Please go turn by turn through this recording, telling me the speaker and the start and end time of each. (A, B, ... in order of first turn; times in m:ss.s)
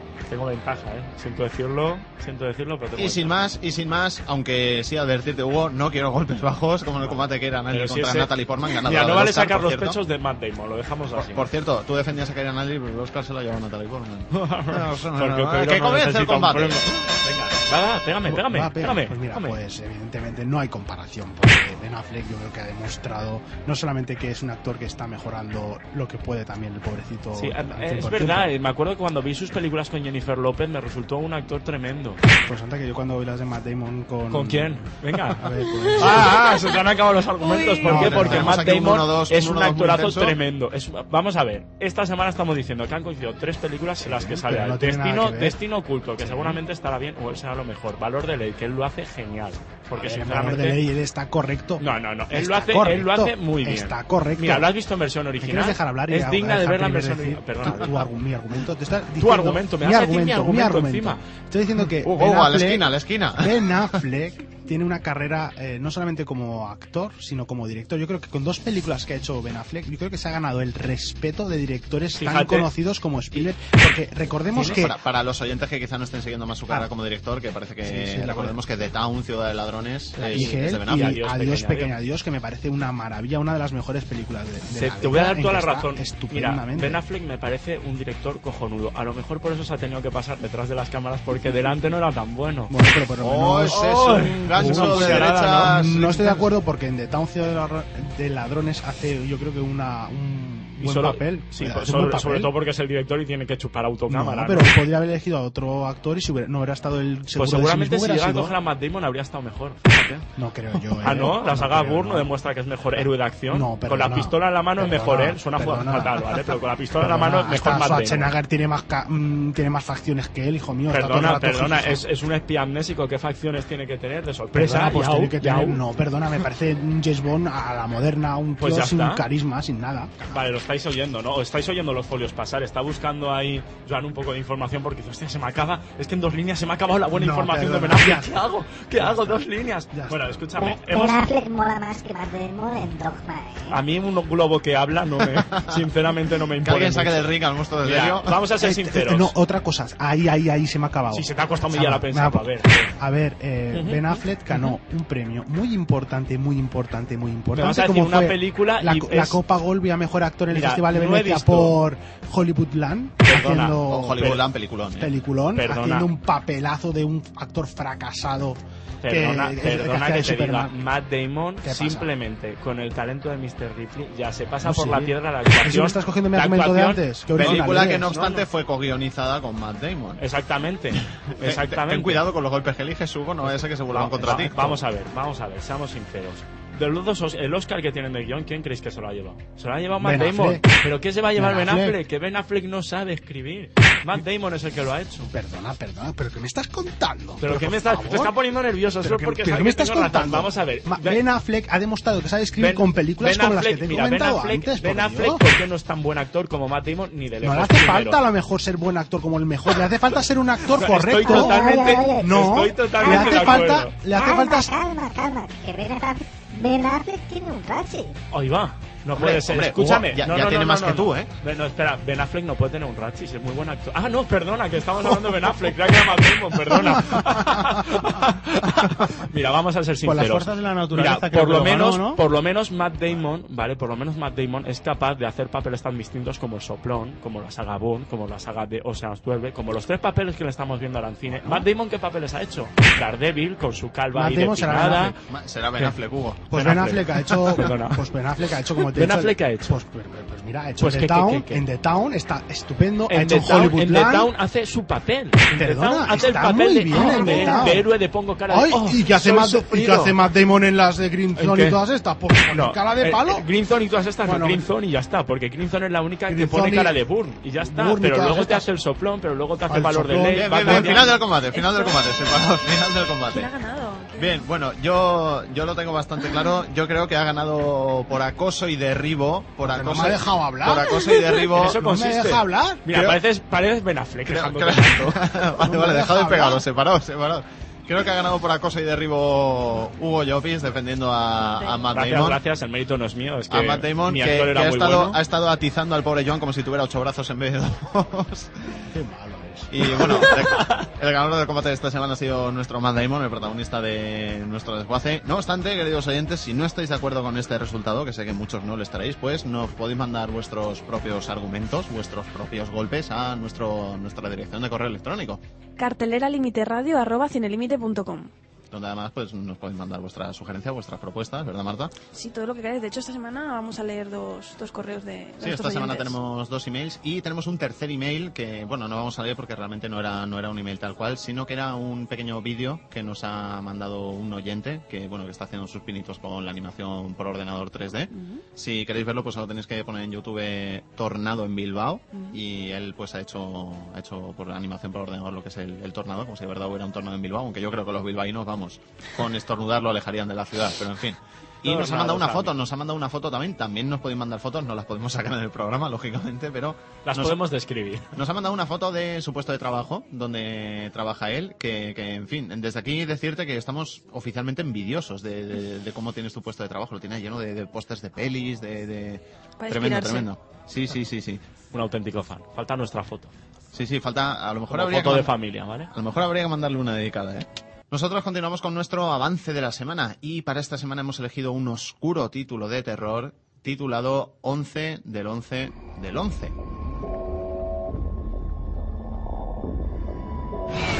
0:00.3-0:03.4 A
0:03.0-0:10.0 B
0:07.0-0:11.5 A
0:11.1-0:17.1 B
0:14.3-0:19.6 A
0:18.2-0:28.5 C
0:27.3-0:32.2 A
0:32.3-0:36.6 C
0:34.3-0:50.8 A
0:35.8-0:36.4 D
0:37.4-0:37.9 D
0:37.8-0:38.7 C
0:37.9-0:40.4 B
0:44.0-0:45.6 C
0:46.2-0:46.6 C
0:49.9-0:54.7 C
0:51.8-0:58.1 A
0:55.4-1:15.0 C
0:59.2-1:01.2 A
1:02.0-1:03.8 B
1:12.1-1:12.7 A
1:14.5-1:14.8 A
1:14.5-1:21.2 B
1:17.8-1:18.8 C
1:20.2-1:27.0 C
1:20.2-1:21.9 A
1:24.7-1:32.7 A
1:32.7-1:42.5 C
1:33.2-1:36.4 B
1:33.6-1:35.7 A
1:40.8-1:44.8 A
1:44.1-1:48.5 C
1:47.3-1:50.2 A
1:50.4-1:52.3 C
1:51.0-1:58.4 A
1:52.9-2:02.0 C
2:00.9-2:05.8 A
2:04.5-2:10.5 C
2:08.6-2:09.2 A
2:10.3-2:21.2 A
2:17.1-2:18.4 C
2:19.0-2:20.2 C
2:20.6-2:23.8 E
2:23.7-2:29.3 A
2:25.5-2:25.8 B
2:26.6-2:28.4 B
2:28.6-2:44.4 C
2:31.1-2:32.9 A
2:33.7-2:34.7 A
2:37.5-2:39.4 A
2:40.5-2:41.8 A
2:43.2-2:44.4 A
2:43.7-2:45.1 B
2:45.0-2:50.8 C
2:45.5-2:46.1 A
2:49.0-2:58.4 A
2:51.6-2:52.1 C
2:54.6-2:58.4 C
2:57.4-3:00.2 B
3:00.2-3:02.2 A
3:01.4-3:04.8 B
3:03.4-3:15.3 A
3:04.2-3:04.8 C
3:10.0-3:10.7 C
3:11.3-3:12.0 C
3:15.3-3:18.4 C
3:17.4-3:21.2 A
3:19.0-3:25.4 C
3:22.6-3:28.2 A
3:27.4-3:34.7 C
3:30.7-3:33.9 A
3:31.2-3:38.1 E
3:38.3-4:05.2 A
3:39.1-3:41.3 B
3:50.0-3:52.2 C
4:01.3-4:01.7 C
4:04.1-4:05.2 C
4:05.3-4:06.4 B
4:06.5-4:14.3 C
4:06.5-4:08.1 A
4:08.8-4:09.8 A
4:10.8-4:11.6 A
4:13.1-4:20.2 A
4:15.5-4:17.9 C
4:16.9-4:17.7 D
4:18.5-4:23.4 C
4:21.4-4:21.8 A
4:22.5-4:31.2 A
4:24.2-4:24.6 C
4:26.3-4:27.0 C
4:27.5-4:28.7 C
4:29.7-4:31.2 C
4:30.3-4:33.5 B
4:31.5-4:32.0 D
4:33.3-4:34.4 D
4:34.2-4:41.8 B
4:39.6-4:42.9 C
4:41.5-4:45.2 A
4:44.3-4:52.4 B
4:45.6-4:46.6 C
4:51.9-4:55.2 A
4:53.5-4:58.8 B
4:58.9-5:00.3 C
4:59.7-5:15.4 B
5:15.8-5:18.3 D
5:18.7-5:21.9 B
5:22.1-5:26.2 D
5:25.4-5:57.4 B
5:38.1-5:38.4 D
5:42.1-5:42.4 D
5:51.6-5:52.5 A
5:57.0-5:58.1 A
5:58.1-6:11.4 B
6:09.6-6:10.3 D
6:11.7-6:13.3 A
6:13.7-6:15.3 B
6:14.7-6:15.9 A
6:15.9-6:26.5 B